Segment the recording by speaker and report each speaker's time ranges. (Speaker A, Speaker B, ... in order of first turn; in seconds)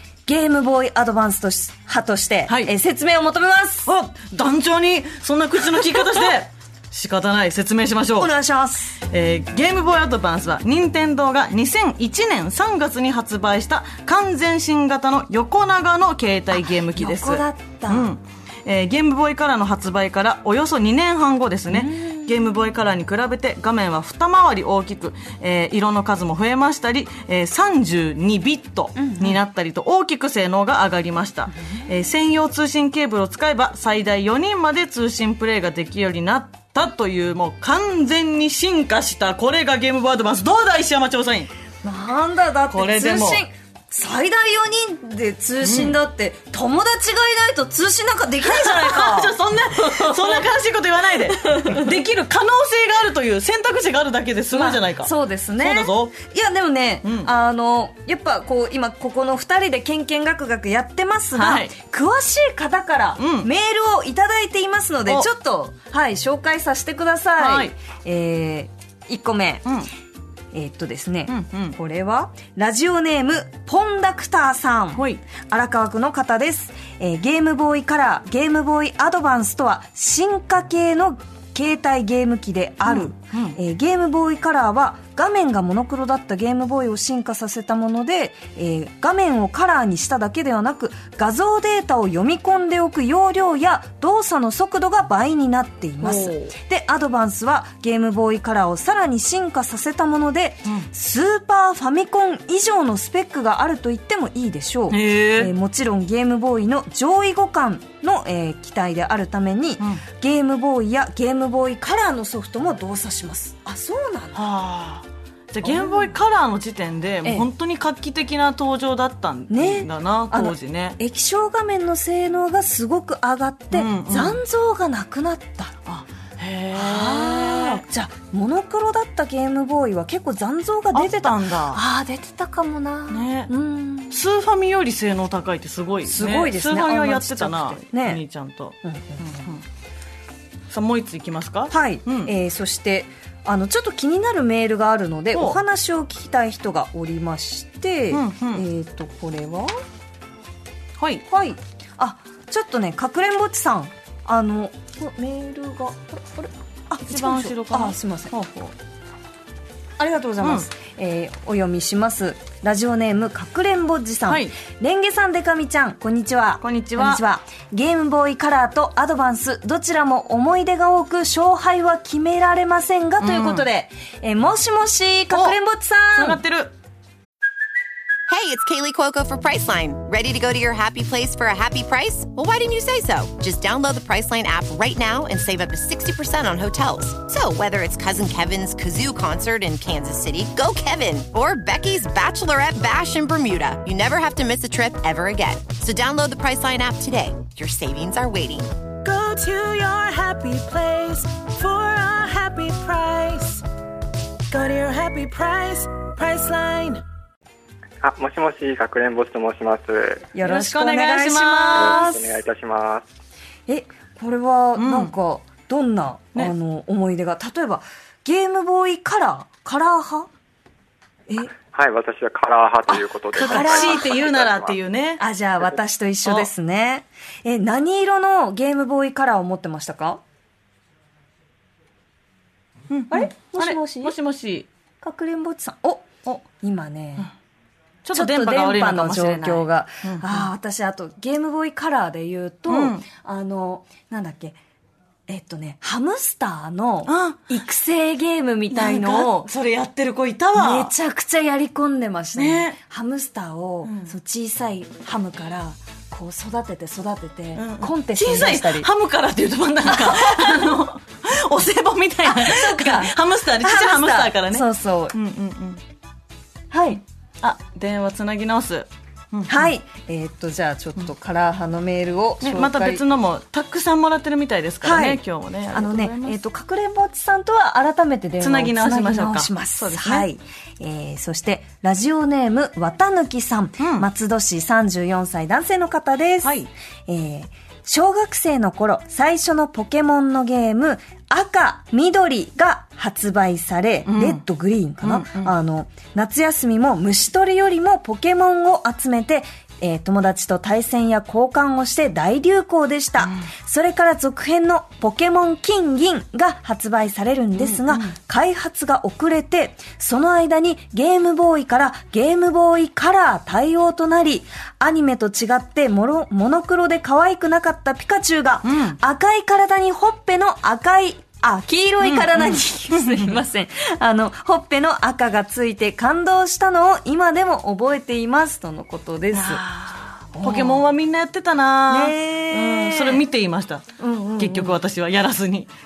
Speaker A: 0.2-3.9, 8.2-9.0, 16.5-18.1, 21.7-22.4, 28.9-29.4, 31.5-31.9, 41.8-50.5, 51.2-51.9, 54.5-69.7, 70.5-114.4, 115.6-116.2, 119.5-125.8, 126.7-134.2, 136.0-138.2, 138.8-139.4, 141.7-149.8, 151.3-158.3, 160.0-176.4, 210.3-212.4, 213.7-220.3, 222.9-224.2, 225.2-230.2, 233.1-234.1, 235.0-237.3, 238.1-244.6, 245.3-249.5, 250.5-258.9, 259.9-260.7, 262.2-265.1, 266.7-267.0, 269.5-273.0, 274.8-286.6, 287.1-329.6, 330.3-330.9, 331.9-333.2, 334.0-334.8
Speaker B: 2.5-2.7, 3.9-8.3, 9.0-41.5, 42.7-43.4, 45.6-46.0, 48.4-56.1, 57.0-57.3, 61.3-61.7, 63.2-63.5, 67.4-67.7, 71.3-71.8, 74.9-75.2, 82.8-83.6, 96.0-96.5, 104.9-105.5, 114.3-121.0, 123.7-124.4, 125.8-127.8, 130.9-131.8, 133.1-133.5, 134.1-139.6, 140.7-142.3, 145.3-145.6, 148.1-148.6, 151.0-151.2, 157.0-158.7, 164.3-164.6, 166.6-167.2, 173.2-173.6, 175.3-175.6, 176.2-176.7, 210.4-212.1, 214.8-215.1, 223.3-225.2, 232.9-234.7, 238.0-240.5, 242.7-243.0, 247.1-247.5, 248.7-250.9, 252.3-252.8, 253.8-254.1, 257.6-265.8, 267.4-269.7, 272.4-276.4, 278.4-280.3, 283.8-284.1, 286.4-286.7, 294.1-294.4, 295.0-295.5, 303.2-303.5, 307.6-308.1, 318.6-319.0, 322.0-323.4, 329.3-333.8, 334.4-335.7
Speaker C: 178.3-198.7
Speaker D: 199.0-203.6, 204.5-207.0
Speaker E: 208.0-210.3, 211.7-213.1, 221.7-224.8